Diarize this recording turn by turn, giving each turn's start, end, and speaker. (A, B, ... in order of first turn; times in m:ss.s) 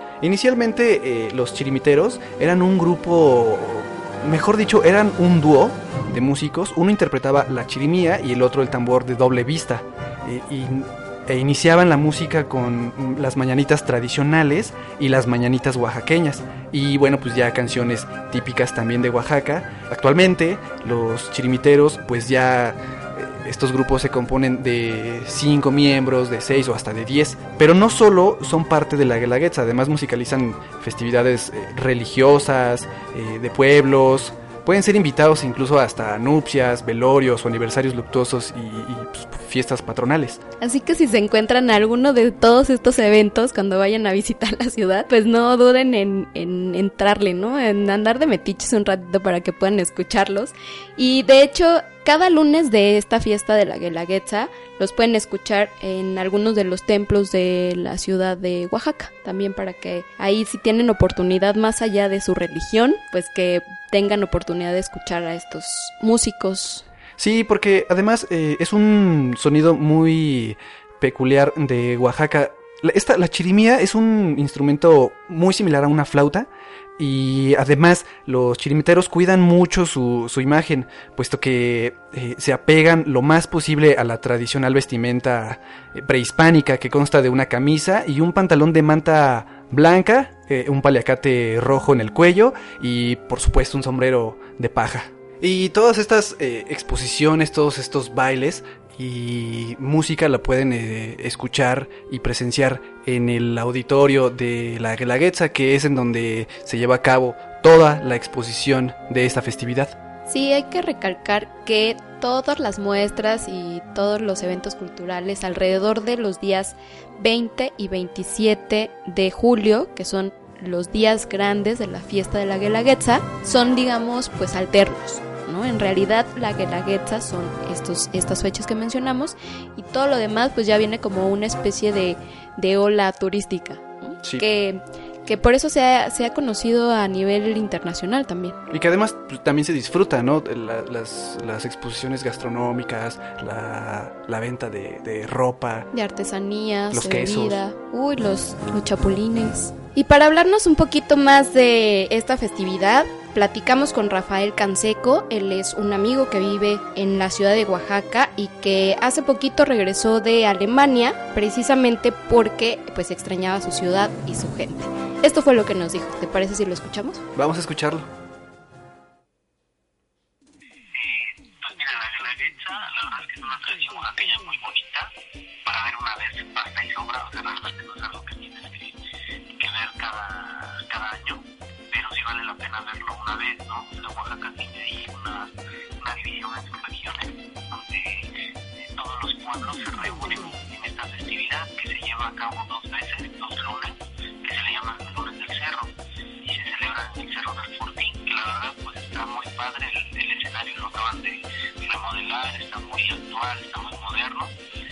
0:00.2-0:40.4 A
0:40.6-1:06.8 B
1:07.2-1:50.0 A
1:50.3-2:18.6 B
2:18.7-2:25.9 A
2:25.9-2:47.2 B
2:26.9-2:27.6 A
2:47.4-2:48.1 A
2:51.0-2:55.1 C
2:55.7-2:59.0 C
2:59.5-3:15.9 C
3:16.4-3:24.5 C